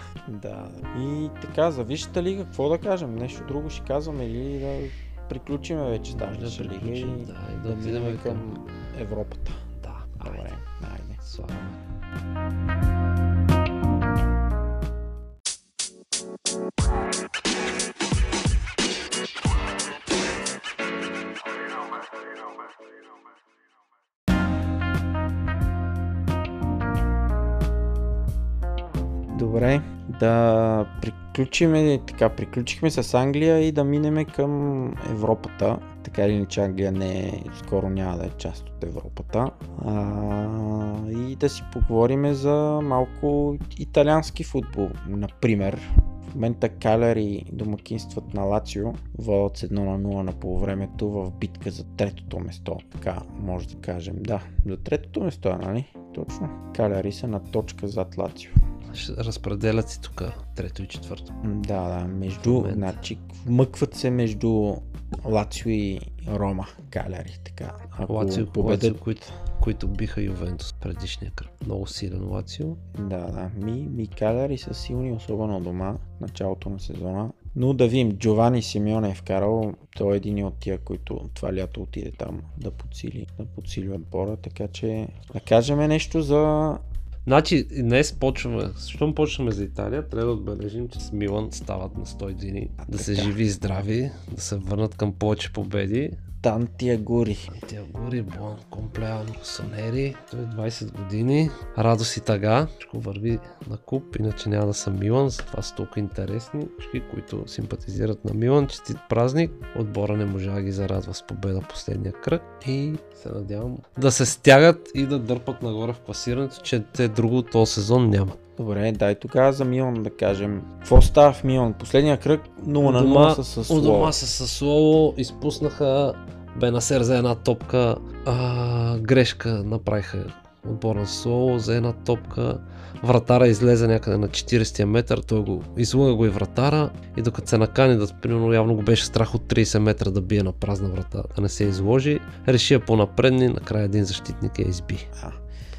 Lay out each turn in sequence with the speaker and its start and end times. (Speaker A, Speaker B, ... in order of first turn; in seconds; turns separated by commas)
Speaker A: 0.3-9.6, Speaker B: 6.1-8.6, Speaker B: 9.8-10.5, Speaker A: 10.2-11.2, Speaker B: 11.2-11.8, Speaker A: 29.3-58.6, Speaker B: 58.9-61.3, Speaker A: 61.4-69.0, Speaker B: 62.4-63.0, Speaker B: 68.1-72.8, Speaker A: 73.0-86.8, Speaker B: 87.3-96.2, Speaker A: 92.8-93.3, Speaker A: 96.4-97.5, Speaker B: 97.5-118.4, Speaker A: 118.6-124.2, Speaker B: 122.8-145.1, Speaker A: 145.2-145.4